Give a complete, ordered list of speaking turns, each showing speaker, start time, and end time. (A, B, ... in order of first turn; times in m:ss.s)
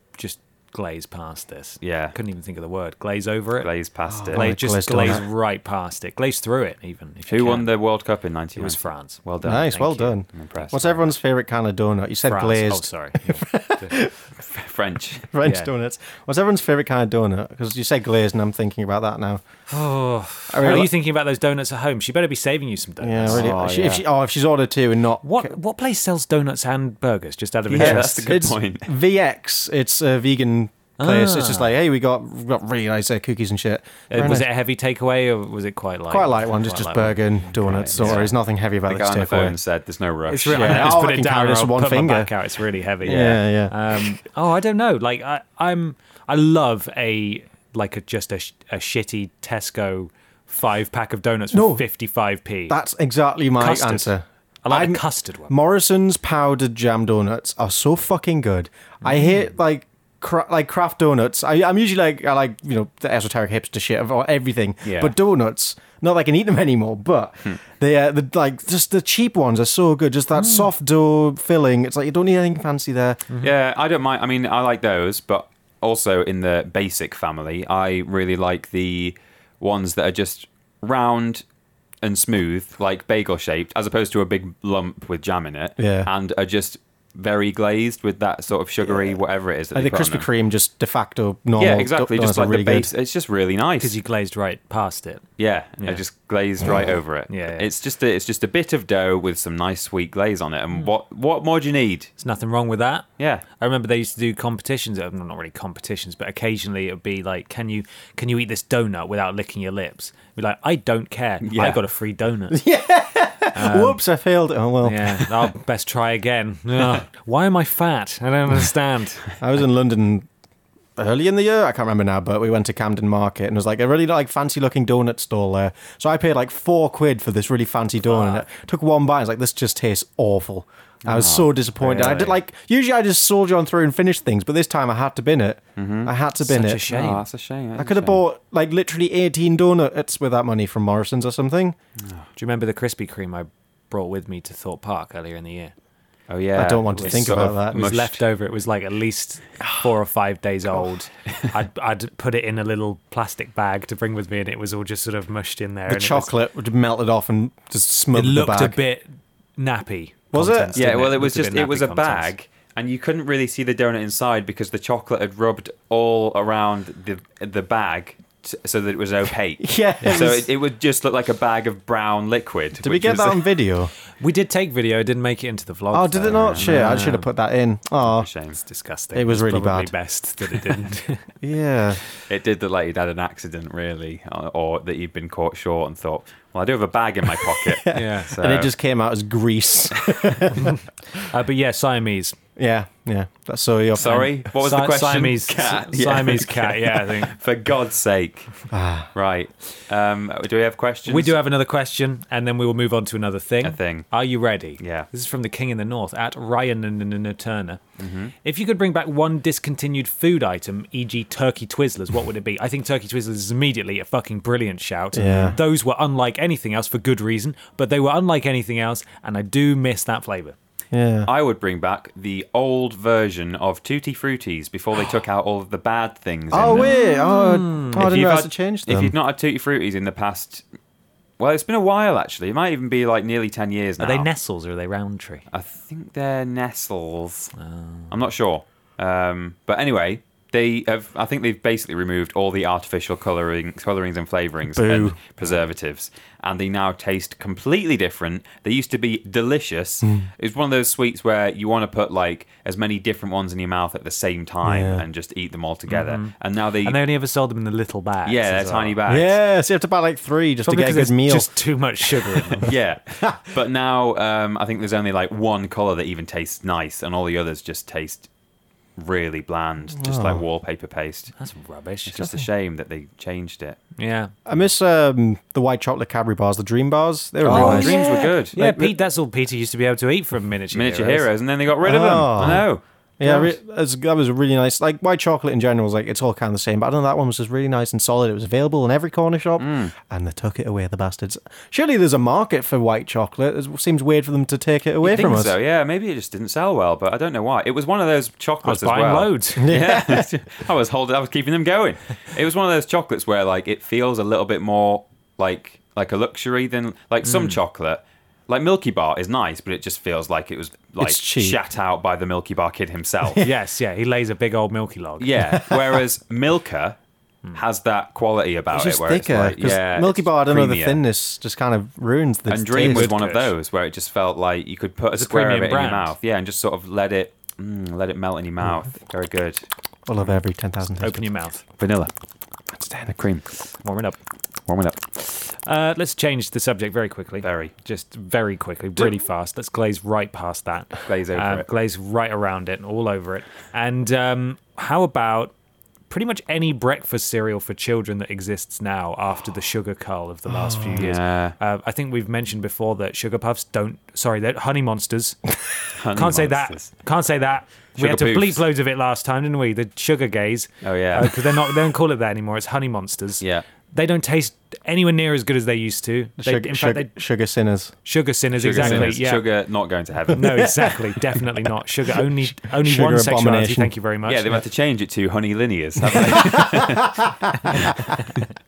0:00.2-0:03.7 A
0:01.8-0:02.2 B
0:03.6-0:04.5 B
0:04.1-0:05.2 C
0:04.3-0:07.7 A
0:07.3-0:09.8 B
0:08.6-0:10.1 A
0:09.4-0:14.1 C
0:10.3-0:11.1 B
0:12.2-0:14.0 A
0:14.4-0:15.3 B
0:15.3-0:19.4 C
0:15.4-0:15.7 A
0:19.7-0:23.6 A
0:20.5-0:20.9 C
0:23.0-0:25.5 C
0:23.3-0:24.0 B
0:25.2-0:28.3 A
0:27.7-0:28.9 B
0:27.7-0:34.5 C
0:31.0-0:31.8 A
0:34.1-0:37.3 A
0:36.1-0:39.6 C
0:37.6-0:38.3 B
0:37.9-0:38.3 A
0:38.9-0:41.0 B
0:40.3-0:52.8 A
0:40.5-0:42.3 C
0:43.0-0:43.7 C
0:43.1-0:43.3 B
0:51.5-0:51.8 C
0:52.7-1:13.2 C
0:53.6-0:54.1 A
0:54.6-0:55.6 A
0:59.0-0:59.5 A
1:04.8-1:05.1 A
1:10.4-1:10.7 A
1:13.4-1:21.4 B
1:22.0-1:30.3 B
1:25.8-1:26.1 C
1:29.7-1:32.9 C
1:31.6-1:34.0 B
1:33.8-1:35.2 A
1:35.4-1:42.1 B
1:37.3-1:37.7 A
1:42.2-1:43.1 A
1:43.2-1:43.4 B
1:43.6-1:52.6 A
1:51.4-1:51.8 B
1:52.5-1:55.3 C
1:53.6-1:54.0 A
1:54.8-1:59.2 A
1:59.4-2:00.3 C
2:01.0-2:16.8 C
2:11.1-2:12.4 B
2:15.8-2:16.1 B
2:16.4-2:17.2 A
2:16.9-2:18.2 B
2:17.8-2:21.8 C
2:22.4-2:25.7 A
2:26.3-2:28.2 B
2:26.6-2:28.1 C
2:27.0-2:36.4 A
2:35.9-2:38.8 C
2:38.1-2:42.3 A
2:40.3-2:41.0 C
2:40.8-2:53.4 B
2:49.6-2:50.5 C
2:52.8-2:53.9 C
2:54.2-2:57.3 A
2:55.9-2:58.3 C
2:56.3-2:56.7 B
2:58.0-2:58.6 B
2:58.6-3:01.2 A
2:59.1-2:59.9 C
3:01.4-3:02.0 C
3:02.3-3:08.7 B
3:07.4-3:10.8 C
3:07.9-3:08.3 A
3:10.1-3:10.4 B
3:10.5-3:12.4 A
3:12.6-3:14.4 C
3:14.0-3:18.5 B
3:14.0-3:17.4 A
3:18.7-3:19.1 C
3:19.1-3:21.4 B
3:21.1-3:27.8 A
3:23.6-3:24.1 B
3:24.8-3:25.1 B
3:28.0-3:28.3 B
3:28.4-3:40.6 A
3:35.1-3:35.6 C
3:40.9-3:41.3 C
3:41.3-3:46.9 B
3:46.5-3:49.1 C
3:46.6-3:48.1 A
3:48.0-3:50.6 B
3:51.4-3:54.3 B
3:54.0-3:55.4 A
3:55.5-3:57.5 B
3:57.6-3:58.1 A
3:58.1-4:17.0 B
4:04.7-4:05.2 C
4:10.0-4:10.3 C
4:14.6-4:15.0 C
4:15.9-4:16.3 A
4:16.8-4:19.0 A
4:18.2-4:19.4 B
4:19.1-4:21.6 C
4:20.6-4:22.7 A
4:22.1-4:23.4 C
4:22.7-4:28.3 B
4:29.0-4:31.3 B
4:30.0-4:30.4 C
4:31.4-4:32.4 A
4:32.1-4:33.8 B
4:34.0-4:34.3 A
4:34.5-4:38.0 C
4:37.4-4:38.6 B
4:37.4-4:41.3 A
4:38.5-4:38.9 C
4:40.7-4:42.8 B
4:41.8-4:42.7 C
4:43.2-4:55.6 C
4:49.6-4:49.9 B
4:55.0-5:13.4 B
4:58.6-4:59.8 A
4:59.6-5:00.3 C
5:07.2-5:07.6 A
5:11.0-5:11.6 C
5:13.4-5:15.3 A
5:15.2-5:17.0 B
5:15.4-5:16.0 C
5:17.6-5:21.0 B
5:18.7-5:23.2 C
5:22.5-5:29.7 B
5:22.8-5:23.5 A
5:25.1-5:26.1 A
5:30.1-5:31.3 C
5:31.0-5:31.6 A
5:31.8-5:32.1 B
5:32.7-5:33.1 C
5:33.1-5:33.4 B
5:33.7-5:34.2 A
5:34.7-5:35.0 B
5:35.2-5:45.5 A
5:37.4-5:37.7 B
5:41.0-5:41.7 B
5:46.1-5:55.4 A
5:50.5-5:51.1 C
5:51.0-5:51.6 B
5:55.9-5:56.9 B
5:56.1-6:07.1 A
5:58.0-5:58.6 B
6:00.8-6:01.4 B
6:06.4-6:08.0 C
6:08.0-6:09.4 A
6:08.6-6:10.7 B
6:08.8-6:09.1 C
6:10.3-6:14.5 A
6:10.5-6:10.8 C
6:12.6-6:13.9 C
6:14.2-6:17.2 B
6:16.2-6:18.1 C